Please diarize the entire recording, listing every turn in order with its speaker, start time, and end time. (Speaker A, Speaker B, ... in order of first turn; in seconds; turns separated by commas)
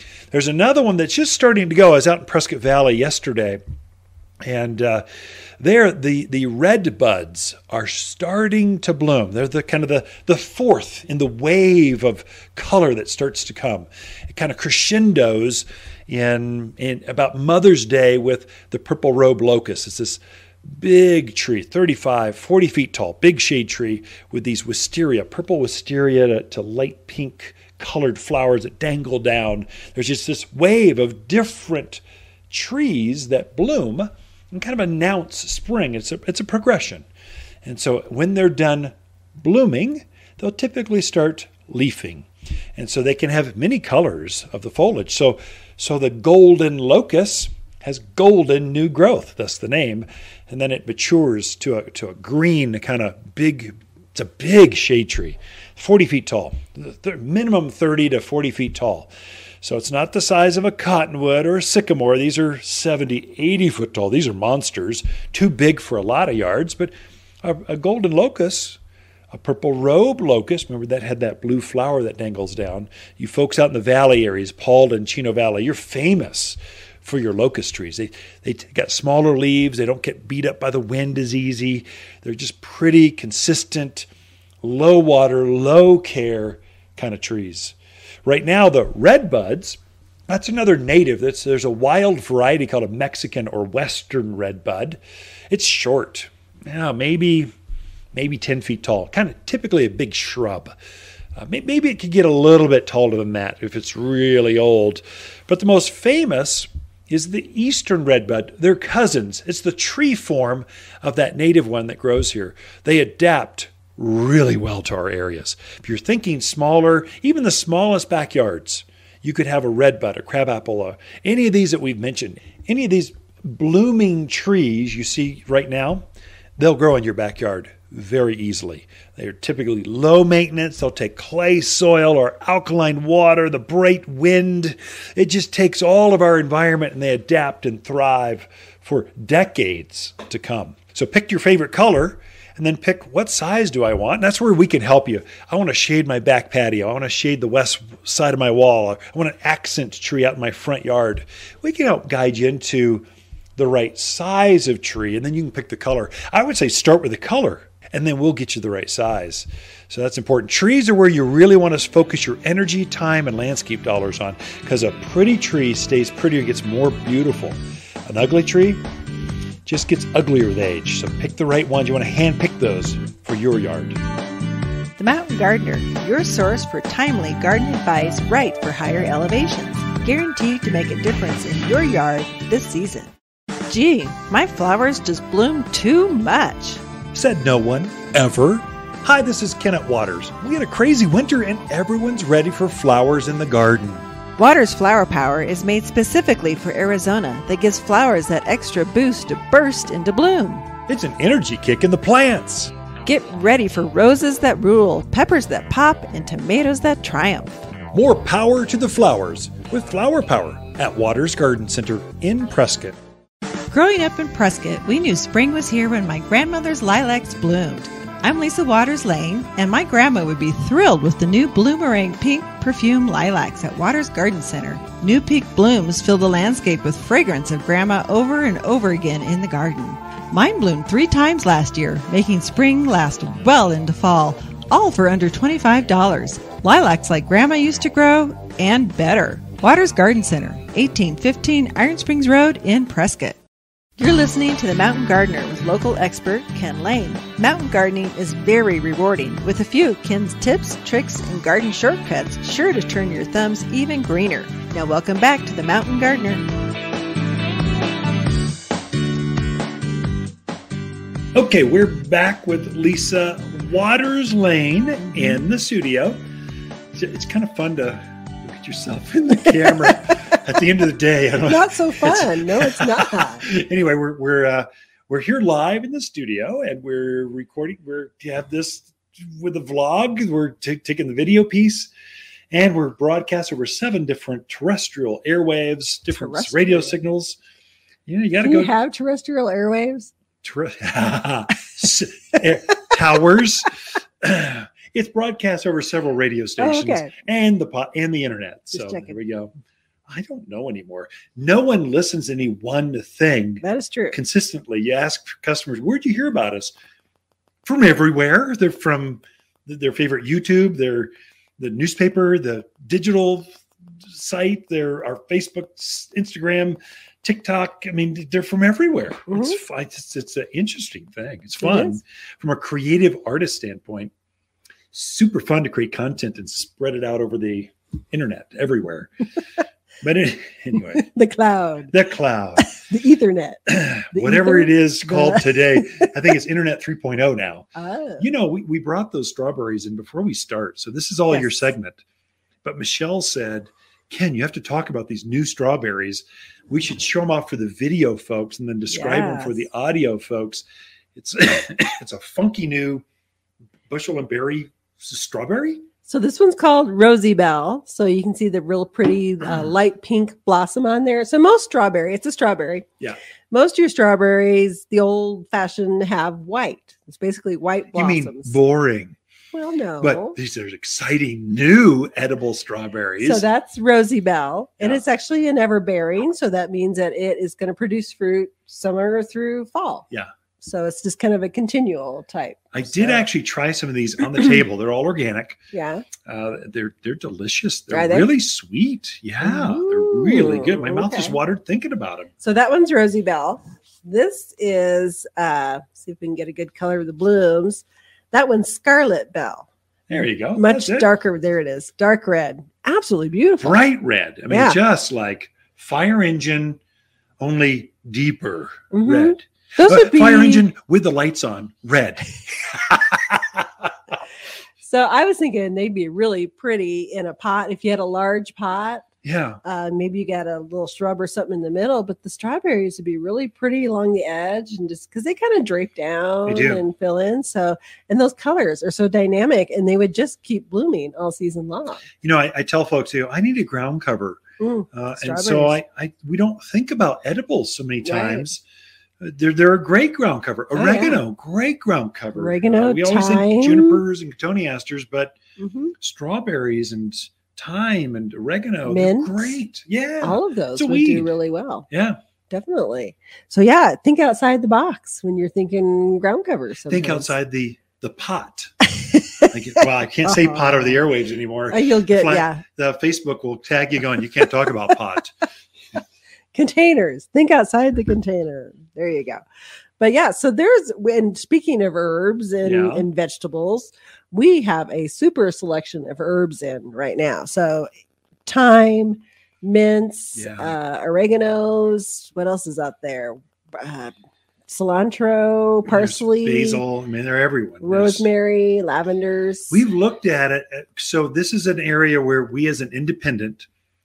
Speaker A: 0.3-3.6, Speaker A: 4.4-5.0, Speaker A: 5.6-37.1, Speaker A: 37.6-59.1, Speaker A: 59.6-68.8, Speaker A: 69.3-84.1, Speaker A: 84.6-95.0, Speaker A: 95.5-97.5, Speaker A: 98.1-100.7, Speaker A: 101.3-168.8, Speaker A: 169.7-174.0, Speaker B: 175.0-183.1, Speaker B: 183.7-186.8, Speaker A: 187.1-194.1, Speaker B: 194.4-200.7, Speaker A: 200.9-202.7, Speaker B: 203.0-207.5, Speaker A: 207.9-213.0, Speaker B: 213.7-243.4, Speaker B: 244.0-256.4, Speaker A: 261.3-266.2, Speaker A: 266.9-281.9, Speaker C: 271.4-273.4, Speaker A: 282.5-287.4, Speaker C: 286.1-286.9, Speaker A: 288.1-288.7, Speaker C: 288.4-290.1, Speaker A: 290.4-299.5, Speaker C: 296.6-297.1, Speaker C: 298.7-299.1, Speaker A: 300.1-306.7, Speaker C: 303.6-304.2, Speaker A: 307.6-324.1, Speaker C: 319.3-319.6, Speaker C: 321.6-322.0, Speaker A: 324.9-329.1, Speaker A: 330.0-331.1, Speaker C: 330.9-331.9, Speaker A: 331.9-332.7, Speaker C: 332.6-336.1, Speaker A: 333.7-342.0, Speaker C: 337.7-338.2, Speaker C: 341.3-341.6, Speaker A: 342.6-353.0, Speaker C: 348.9-349.6, Speaker A: 353.9-355.9, Speaker C: 356.1-362.9, Speaker C: 363.5-368.6, Speaker A: 367.9-369.1, Speaker C: 369.5-370.4, Speaker A: 370.0-373.4, Speaker C: 373.2-380.1, Speaker C: 380.6-383.2, Speaker A: 382.7-385.6, Speaker C: 385.7-386.0, Speaker A: 386.2-392.3, Speaker C: 387.9-388.3, Speaker C: 389.4-391.4, Speaker C: 392.4-399.7, Speaker A: 400.1-401.1, Speaker C: 400.6-403.8, Speaker A: 403.6-406.8, Speaker C: 404.5-404.8, Speaker A: 407.4-413.9, Speaker C: 408.9-410.6, Speaker C: 414.8-419.1, Speaker A: 419.2-419.6, Speaker C: 419.6-432.0, Speaker A: 426.4-426.8, Speaker A: 432.2-434.4, Speaker C: 434.6-435.8, Speaker A: 434.9-438.6, Speaker C: 438.0-438.5, Speaker A: 439.2-445.4, Speaker C: 440.7-441.2, Speaker C: 442.3-444.0, Speaker C: 445.6-445.9, Speaker A: 446.0-451.3, Speaker C: 448.9-449.6, Speaker C: 450.2-451.9, Speaker A: 451.9-452.2, Speaker C: 452.5-457.3, Speaker A: 456.9-458.7, Speaker C: 459.2-459.5, Speaker A: 459.4-465.3, Speaker C: 460.2-461.0, Speaker C: 461.7-462.6, Speaker C: 466.5-469.4, Speaker C: 470.0-477.9, Speaker A: 472.6-473.1, Speaker C: 478.4-484.1, Speaker A: 480.4-480.8, Speaker C: 484.7-486.8, Speaker A: 485.9-488.3, Speaker C: 487.8-489.8, Speaker A: 489.7-493.7